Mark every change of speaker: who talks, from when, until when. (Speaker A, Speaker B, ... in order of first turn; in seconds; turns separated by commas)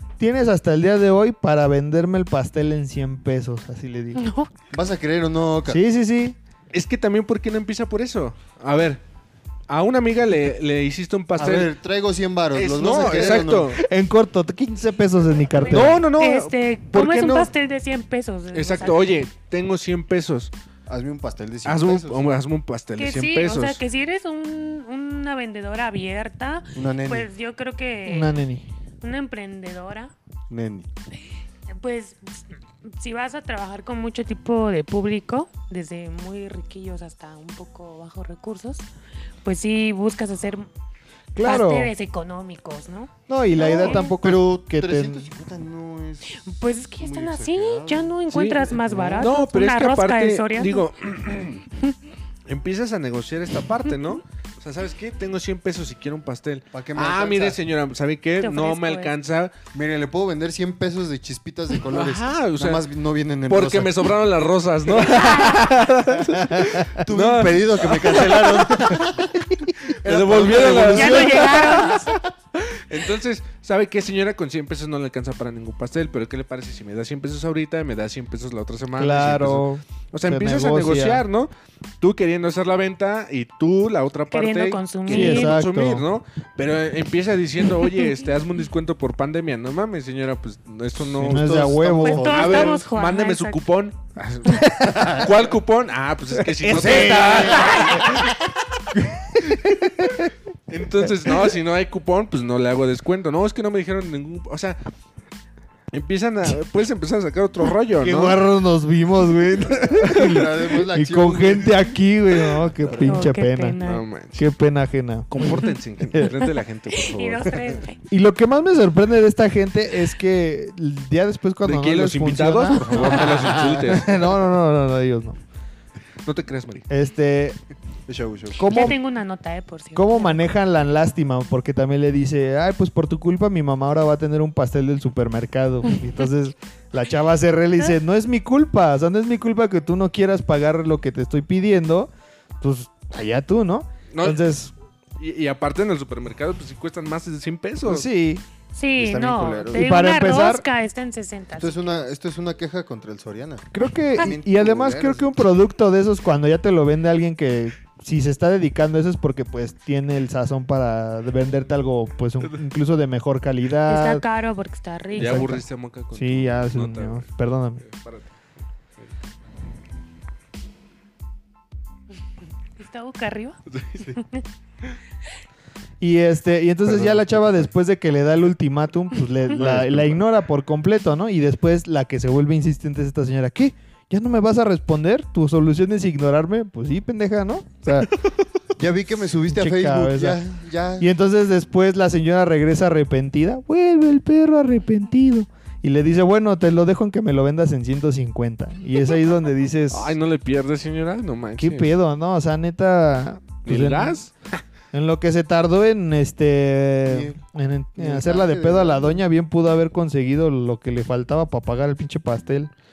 Speaker A: 0.2-4.2, Speaker B: 4.1-4.5, Speaker C: 4.7-5.8, Speaker A: 5.7-6.3, Speaker D: 6.7-9.0, Speaker D: 9.7-11.7, Speaker C: 11.4-13.8, Speaker D: 12.5-13.8, Speaker A: 13.8-16.0, Speaker B: 15.6-19.2, Speaker D: 15.7-17.5, Speaker D: 18.5-20.5, Speaker C: 20.9-22.2, Speaker D: 21.6-23.8, Speaker B: 23.0-28.4, Speaker C: 26.7-27.3, Speaker A: 28.1-28.6, Speaker B: 29.0-30.1, Speaker C: 30.5-30.9, Speaker B: 31.7-38.9, Speaker B: 39.4-40.7, Speaker A: 41.3-41.9, Speaker B: 41.4-44.1, Speaker A: 43.3-45.3, Speaker C: 43.6-46.4, Speaker B: 46.3-50.9, Speaker C: 47.0-48.1, Speaker D: 48.3-51.6, Speaker D: 52.5-59.5, Speaker C: 56.7-57.6, Speaker B: 58.4-59.1, Speaker C: 59.7-64.1, Speaker D: 61.9-62.9, Speaker D: 63.5-69.2, Speaker B: 65.0-65.6, Speaker A: 66.4-66.8, Speaker C: 67.0-72.2, Speaker D: 69.8-81.5, Speaker B: 70.9-72.1, Speaker A: 78.9-81.2, Speaker D: 82.0-91.7, Speaker B: 84.3-85.6, Speaker A: 85.1-86.0, Speaker C: 91.0-92.8, Speaker A: 91.2-92.3, Speaker B: 92.0-93.6, Speaker D: 92.3-98.3, Speaker A: 94.7-95.1, Speaker C: 94.8-95.2, Speaker A: 96.5-98.3, Speaker C: 96.7-98.2, Speaker A: 99.2-100.3, Speaker D: 100.7-104.8, Speaker D: 105.9-108.4, Speaker A: 108.0-113.8, Speaker C: 109.7-111.9, Speaker D: 110.1-110.4, Speaker B: 113.0-114.0, Speaker D: 113.8-114.4, Speaker A: 114.3-116.4, Speaker D: 115.3-117.7, Speaker B: 116.9-118.0, Speaker A: 118.1-125.4, Speaker D: 121.6-124.2, Speaker C: 122.9-124.0, Speaker D: 126.2-126.8, Speaker A: 126.9-127.6, Speaker C: 128.1-128.7, Speaker A: 128.6-128.9, Speaker B: 128.6-130.4, Speaker A: 129.9-144.7, Speaker D: 144.1-144.4, Speaker D: 145.2-148.1, Speaker A: 147.8-148.4, Speaker B: 148.7-152.0, Speaker C: 148.9-149.9, Speaker A: 149.7-150.6, Speaker C: 151.6-153.7, Speaker A: 153.7-164.2, Speaker C: 154.2-155.3, Speaker B: 163.9-165.6, Speaker D: 165.2-167.3, Speaker A: 165.2-167.8, Speaker D: 167.8-168.2, Speaker B: 172.8-174.4, Speaker D: 173.7-174.1, Speaker A: 176.0-188.1, Speaker C: 179.6-180.0, Speaker C: 188.8-191.1, Speaker A: 189.5-190.4, Speaker A: 191.0-200.2, Speaker D: 199.9-201.9, Speaker A: 201.6-204.2, Speaker D: 203.6-204.6, Speaker A: 204.9-212.7, Speaker C: 207.0-207.4, Speaker C: 208.0-209.2